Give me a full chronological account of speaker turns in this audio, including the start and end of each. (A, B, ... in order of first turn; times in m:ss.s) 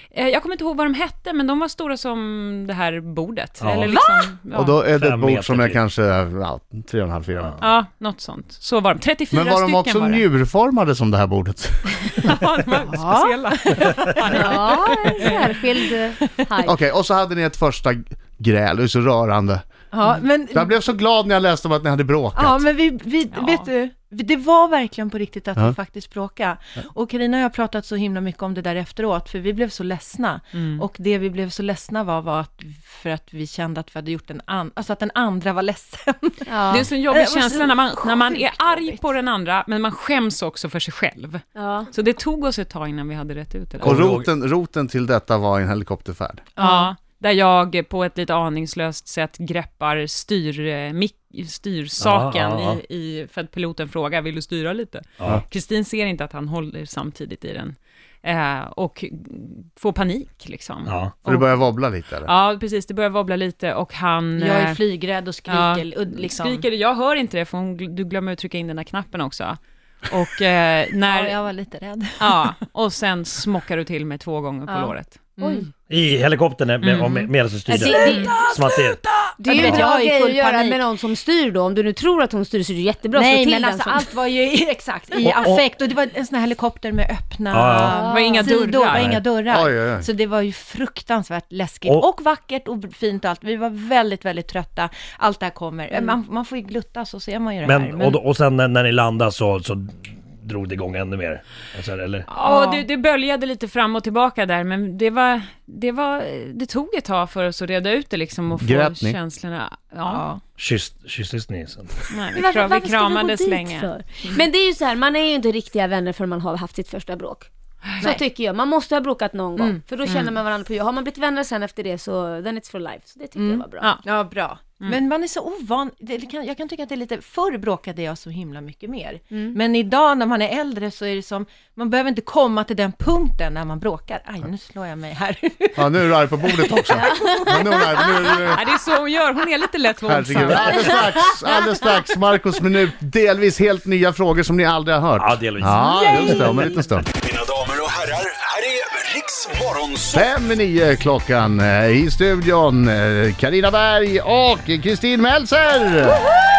0:00.1-0:04.8 A
0:03.6-0:04.0 B
0:04.5-0:07.6 C
0:04.9-0:05.8 B
0:07.6-0:10.2 A
0:09.3-0:11.9 C
0:12.1-0:15.4 A
0:12.9-0:13.9 D
0:14.3-0:16.8 E
0:14.5-0:15.3 D
0:16.6-0:19.6 C
0:19.9-0:20.8 D
0:20.5-0:22.6 C
0:22.3-0:39.1 D
0:23.3-0:23.6 A
0:30.5-0:30.8 A
0:36.5-0:36.9 E
0:36.7-0:44.1 A
0:41.6-0:41.9 E
0:43.8-0:44.3 B
0:43.8-0:46.4 C
0:46.6-0:46.9 D
0:46.6-1:01.6 A
0:52.0-0:52.8 B
1:00.8-1:01.1 B
1:01.2-1:02.3 C
1:02.2-1:04.8 A
1:04.4-1:06.6 D
1:05.5-1:11.4 A
1:11.0-1:12.5 D
1:12.2-1:15.2 A
1:14.7-1:15.6 D
1:15.4-1:15.7 E
1:15.9-1:19.0 B
1:16.8-1:17.3 A
1:17.7-1:18.4 E
1:17.7-1:20.8 D
1:19.4-1:24.1 E
1:23.1-1:38.2 D
1:25.2-1:25.6 B
1:27.5-1:28.0 B
1:28.0-1:29.2 A
1:28.1-1:28.4 E
1:28.9-1:29.2 B
1:29.5-1:30.0 C
1:37.6-1:42.3 B
1:42.3-1:42.8 D
1:42.3-1:50.2 A
1:48.6-1:49.2 C
1:50.0-1:50.4 D
1:50.6-1:52.1 B
1:52.1-1:53.9 A
1:52.3-1:57.5 E
1:57.8-1:58.1 A
1:58.0-2:03.9 E
2:00.0-2:00.3 A
2:03.4-2:18.4 D
2:15.8-2:18.6 C
2:17.0-2:17.3 E
2:18.5-2:20.9 A
2:20.0-2:27.1 C
2:20.6-2:20.9 E
2:25.2-2:26.4 B
2:25.9-2:26.5 E
2:27.2-2:30.2 F
2:30.1-2:36.2 C